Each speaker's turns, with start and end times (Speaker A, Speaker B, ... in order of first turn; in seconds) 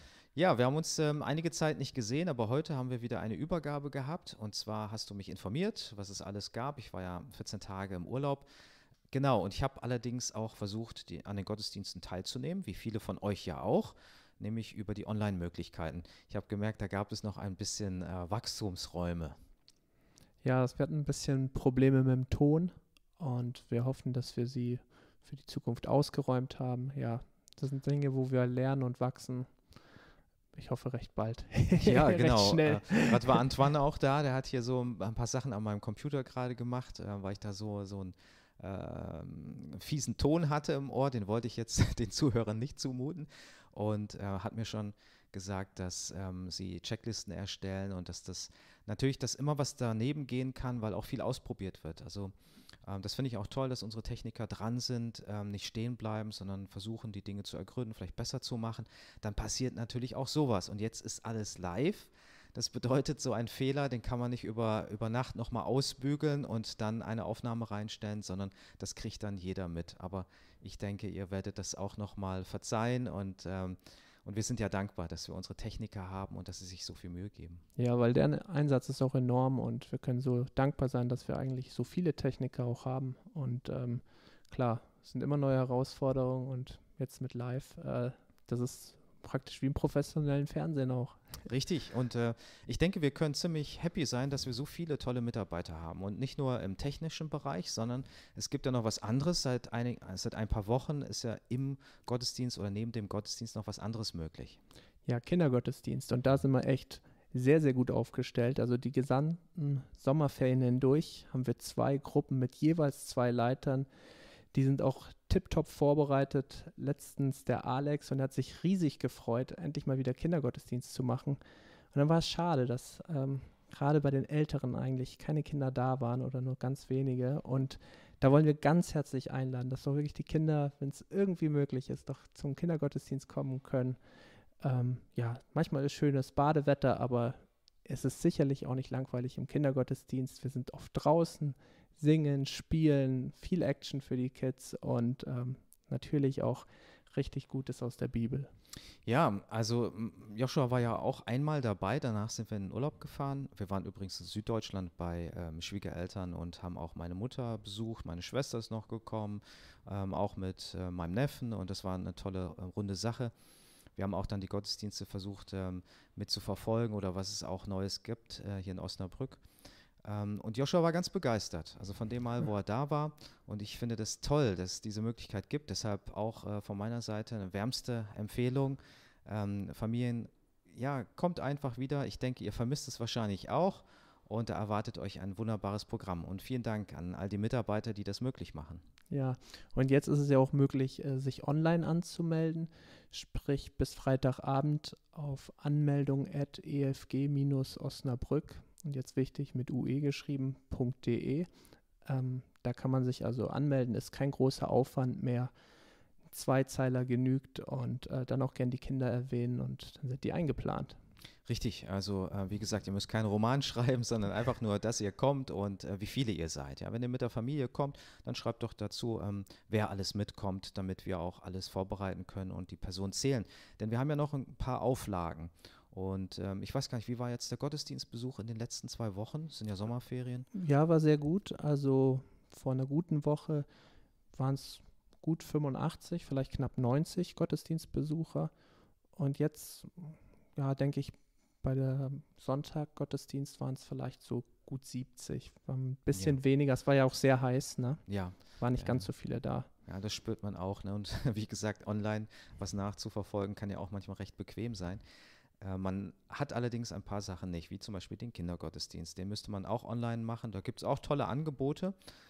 Speaker A: 0.3-8.5, 9.1-19.3, 31.8-52.3, 52.8-77.6, 91.5-104.6, 149.1-163.3, 163.9-169.4, 170.0-188.8, 211.5-230.5, 246.1-246.4, 248.1-249.1, 249.9-255.0, 255.6-261.9
Speaker B: 20.4-29.6, 30.5-33.4, 77.8-91.4, 105.0-113.9, 114.5-121.4, 121.9-134.0, 134.6-148.5, 189.1-201.5, 202.0-205.5, 206.3-211.0, 230.5-233.7, 234.3-238.5, 239.1-249.7